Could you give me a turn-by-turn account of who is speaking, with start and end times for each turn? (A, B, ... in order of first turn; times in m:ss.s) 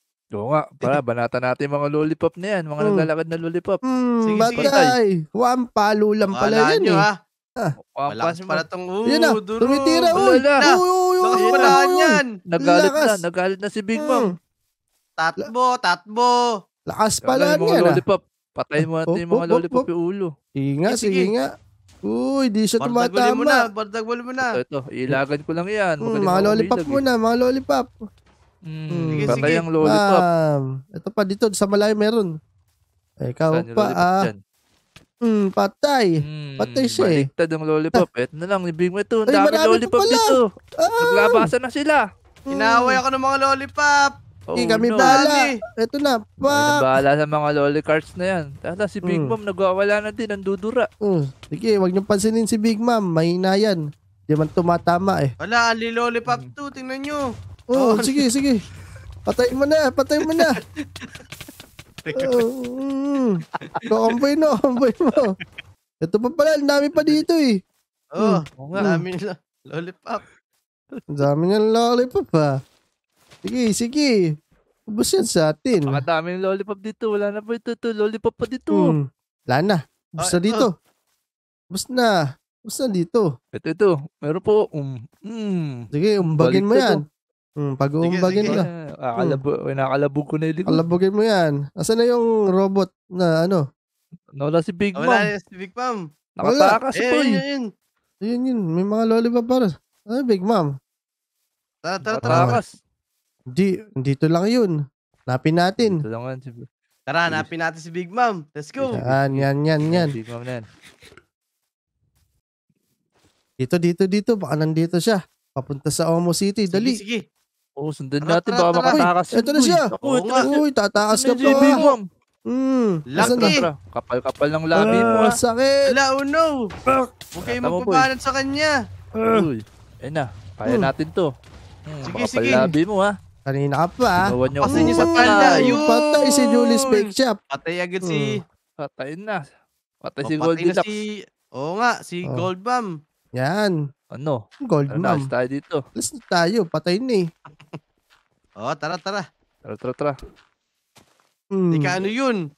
0:00.4-0:03.8 A
0:02.8-0:03.1 B
0:03.9-0:07.0 B
0:04.2-0:04.7 C
0:04.5-0:04.9 A
0:06.3-0:07.1 C
0:07.9-0:08.6 A
0:08.1-0:12.3 C
0:09.1-0:13.2 B
0:10.2-0:10.7 A
0:11.4-0:11.8 A
0:12.5-0:14.3 A
0:14.0-0:14.3 B
0:15.2-0:16.3 C
0:16.9-0:18.0 B
0:17.2-0:20.3 A
0:19.1-0:19.8 B
0:20.6-0:21.4 B
0:20.9-0:21.3 C
0:22.1-0:23.6 B
0:22.8-0:24.5 C
0:24.5-0:27.0 A
0:26.0-0:27.9 B
0:28.7-0:30.2 A
0:28.9-0:32.3 B
0:29.1-0:29.6 C
0:33.2-0:34.2 B
0:33.5-0:34.4 A
0:35.2-0:37.3 B
0:36.2-0:40.4 A
0:39.3-0:41.5 B
0:41.0-0:42.0 A
0:42.4-0:43.0 B
0:42.5-0:44.1 C
0:44.5-0:45.2 A
0:44.6-0:46.7 B
0:45.0-0:45.5 C
0:46.5-0:50.9 A
0:49.0-0:49.3 B
0:51.0-0:55.3 B
0:55.4-0:57.2 C
0:57.7-0:58.6 B
0:57.8-0:58.2 C
0:59.3-1:00.6 B
1:02.0-1:02.4 C
1:02.2-1:05.3 B
1:06.0-1:07.6 B
1:07.0-1:07.2 A
1:08.1-1:10.2 C
1:08.2-1:09.0 B
1:08.6-1:08.9 A
1:11.1-1:12.5 B
1:13.4-1:14.1 B
1:14.9-1:16.0 B
1:15.9-1:18.9 A
1:18.7-1:20.7 B
1:20.2-1:20.7 C
1:21.7-1:22.1 B
1:22.7-1:23.3 B
1:23.6-1:27.0 A
1:25.9-1:27.0 B
1:27.6-1:28.7 B
1:28.0-1:28.6 C
1:28.4-1:30.8 A
1:30.7-1:33.6 B
1:34.4-1:35.2 A
1:35.0-1:36.0 C
1:36.4-1:37.4 A
1:36.4-1:36.8 B
1:37.0-1:37.6 C
1:38.3-1:40.7 B
1:41.8-1:42.5 C
1:42.0-1:42.7 A
1:42.2-1:42.6 B
1:43.5-1:44.7 B
1:45.3-1:46.0 B
1:45.8-1:46.6 A
1:47.1-1:49.0 C
1:48.8-1:50.6 A
1:48.9-1:50.1 B
1:53.6-1:57.0 B
1:56.7-1:57.2 C
1:57.8-2:02.0 A
1:58.2-1:59.0 C
1:58.9-1:59.9 B
2:00.0-2:00.4 C
2:00.4-2:01.8 B
2:01.4-2:01.9 C
2:02.5-2:03.6 B
2:03.1-2:03.6 C
2:03.2-2:05.4 A
2:04.8-2:05.8 B
2:05.9-2:06.6 C
2:06.9-2:08.1 A
2:07.4-2:08.7 C
2:09.2-2:11.3 A
2:11.9-2:13.1 A
2:12.0-2:12.6 C
2:13.5-2:17.4 B
2:14.2-2:15.8 A
2:14.6-2:18.4 C
2:18.0-2:18.3 B
2:18.8-2:19.4 A
2:20.0-2:20.9 A
2:20.2-2:22.8 C
2:23.4-2:23.7 B
2:24.1-2:25.8 A
2:24.7-2:25.2 B
2:26.0-2:27.2 B
2:28.6-2:29.2 C
2:29.6-2:30.1 A
2:31.5-2:32.0 B
2:31.7-2:32.4 C